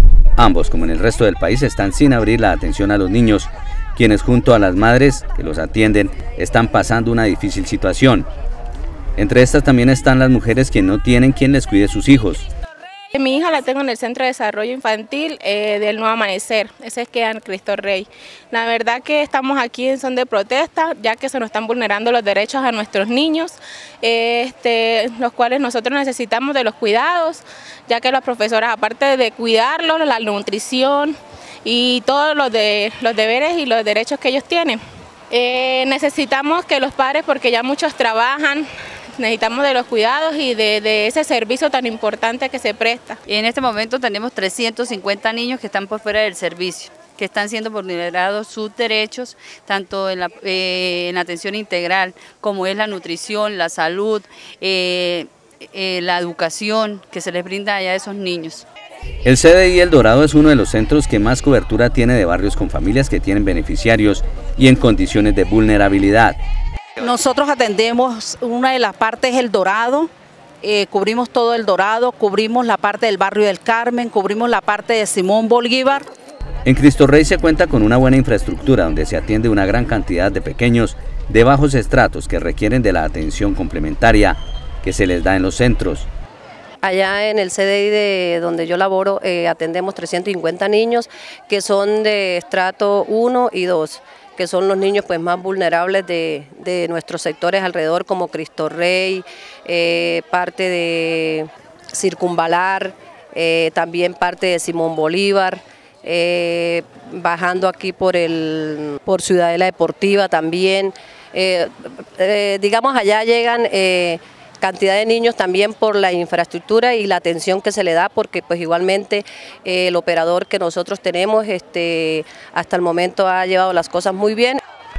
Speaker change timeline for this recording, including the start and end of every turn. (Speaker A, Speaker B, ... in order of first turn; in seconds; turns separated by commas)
Speaker A: 0.4-8.3, Speaker A: 9.2-12.5, Speaker B: 13.1-34.8, Speaker B: 35.3-38.7, Speaker B: 39.2-43.2, Speaker C: 43.3-58.6, Speaker A: 59.2-66.4, Speaker D: 67.0-70.1, Speaker D: 70.6-76.1, Speaker A: 76.7-86.1, Speaker E: 86.8-124.6